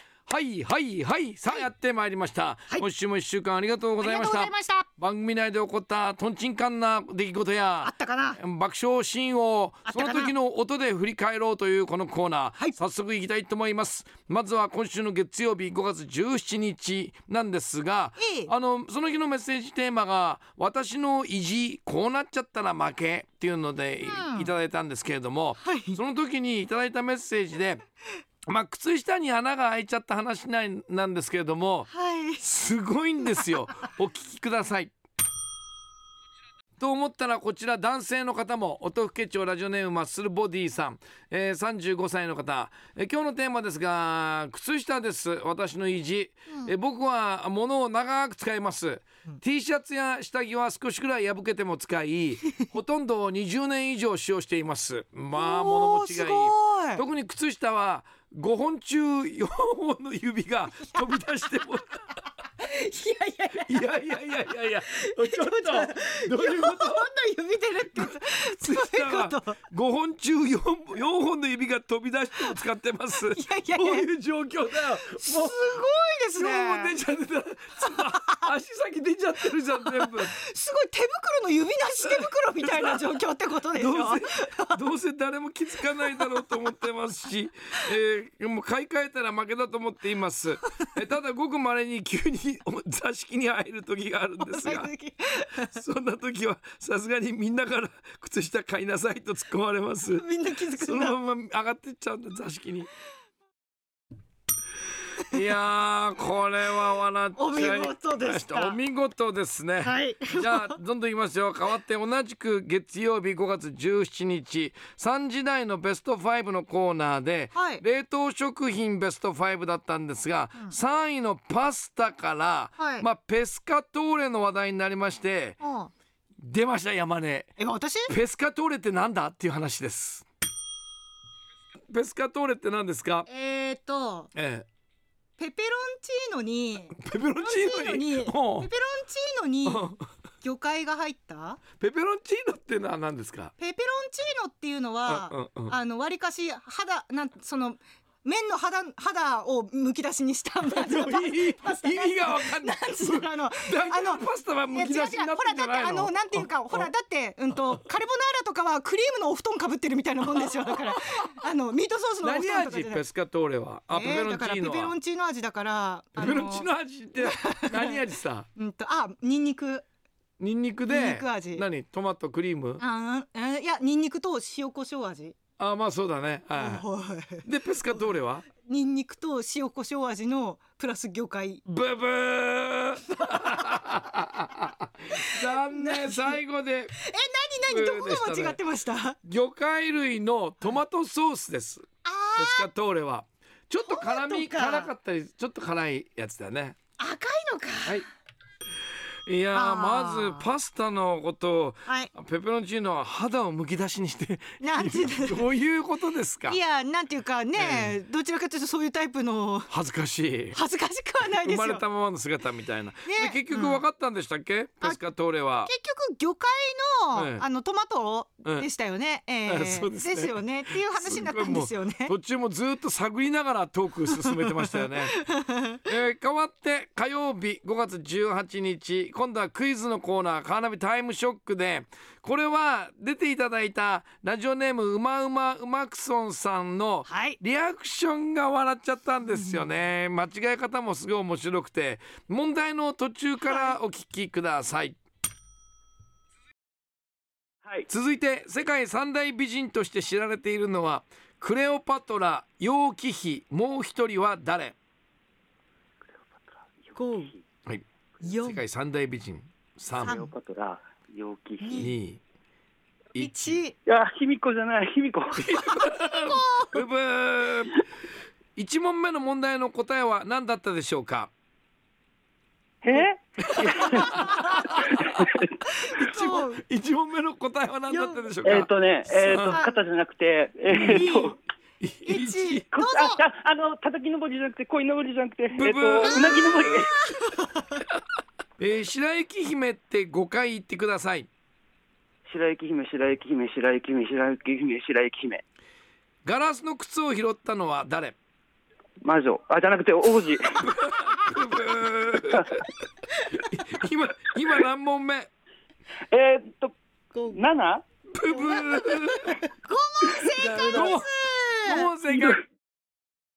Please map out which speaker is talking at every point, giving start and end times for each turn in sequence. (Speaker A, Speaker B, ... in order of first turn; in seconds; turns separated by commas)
Speaker A: 0.3-27.8, Speaker B: 4.0-4.9, Speaker B: 7.8-8.4, Speaker B: 9.9-10.3, Speaker B: 18.2-18.5, Speaker B: 24.1-24.5, Speaker B: 25.6-26.0, Speaker A: 28.5-34.9, Speaker B: 31.9-32.4, Speaker A: 36.8-62.2, Speaker B: 55.3-57.0, Speaker B: 62.6-69.6, Speaker A: 63.5-67.1, Speaker A: 67.9-75.6, Speaker B: 73.3-74.1, Speaker B: 75.2-76.9, Speaker A: 76.3-80.3, Speaker B: 79.8-84.8, Speaker A: 82.1-83.0, Speaker A: 83.8-94.9, Speaker B: 86.0-86.3, Speaker B: 94.4-95.7, Speaker A: 95.7-102.9, Speaker B: 100.1-101.1, Speaker A: 105.2-125.6, Speaker B: 107.3-108.8, Speaker B: 109.8-110.8, Speaker B: 117.5-117.8, Speaker B: 122.8-123.0, Speaker B: 125.6-125.9, Speaker A: 126.4-127.5, Speaker B: 127.6-128.1, Speaker A: 128.1-130.2, Speaker A: 131.9-133.3, Speaker B: 133.3-134.3, Speaker A: 134.3-134.7, Speaker B: 135.4-139.8, Speaker A: 137.0-138.7, Speaker A: 139.6-140.0, Speaker B: 140.4-141.6, Speaker A: 141.8-143.5, Speaker B: 143.6-163.1, Speaker A: 145.1-145.7, Speaker A: 150.7-156.9, Speaker A: 160.3-161.3, Speaker A: 162.2-164.9, Speaker B: 163.9-166.7, Speaker A: 166.2-168.5, Speaker B: 167.2-168.0, Speaker B: 168.6-169.8, Speaker A: 170.4-172.8, Speaker B: 170.9-171.7, Speaker B: 172.8-175.3, Speaker A: 175.6-176.8, Speaker B: 176.5-178.0, Speaker A: 177.4-178.5, Speaker B: 178.6-181.6, Speaker A: 181.7-186.9, Speaker B: 183.2-183.8, Speaker B: 185.1-186.4, Speaker B: 186.9-189.2, Speaker A: 187.7-188.6, Speaker A: 189.2-196.8, Speaker B: 192.0-192.7, Speaker B: 193.8-194.9, Speaker B: 197.0-198.0, Speaker A: 199.2-206.6, Speaker B: 199.5-200.5, Speaker B: 204.6-205.5, Speaker B: 206.5-209.7, Speaker A: 207.6-207.9, Speaker A: 209.7-210.6, Speaker B: 210.5-211.8, Speaker A: 211.4-215.7, Speaker B: 213.1-213.8, Speaker B: 215.6-222.1, Speaker A: 217.1-217.4, Speaker A: 219.4-225.1, Speaker B: 224.2-225.8, Speaker A: 225.8-245.0, Speaker B: 237.1-237.4, Speaker B: 239.3-239.6, Speaker B: 243.4-243.8, Speaker A: 247.9-254.8, Speaker C: 256.2-256.9, Speaker B: 256.9-257.3, Speaker A: 257.6-260.2, Speaker B: 258.2-258.6, Speaker B: 260.0-260.3, Speaker C: 260.0-261.9, Speaker B: 261.6-261.9, Speaker A: 261.7-262.2, Speaker A: 263.1-263.6, Speaker B: 263.2-263.8, Speaker C: 263.9-265.6, Speaker A: 265.4-267.8, Speaker B: 265.7-266.8, Speaker A: 268.6-271.3, Speaker C: 272.8-274.1, Speaker B: 272.9-274.6, Speaker A: 273.4-275.4, Speaker C: 274.8-275.5, Speaker B: 275.7-276.6, Speaker A: 276.0-279.6, Speaker B: 277.9-278.3, Speaker C: 278.4-281.3, Speaker B: 279.5-279.8, Speaker B: 280.7-281.4, Speaker A: 281.8-282.6, Speaker B: 282.1-283.2, Speaker C: 282.7-287.0, Speaker A: 285.6-286.9, Speaker B: 286.2-287.8, Speaker A: 288.6-291.3, Speaker C: 292.3-295.4, Speaker A: 296.2-298.1, Speaker C: 299.0-300.6, Speaker A: 300.7-302.7, Speaker A: 303.3-305.3, Speaker C: 306.1-306.7, Speaker B: 307.1-307.4, Speaker C: 307.3-307.8, Speaker A: 308.1-309.4, Speaker B: 308.3-311.9, Speaker A: 310.2-311.1, Speaker C: 310.3-310.8, Speaker A: 311.6-312.4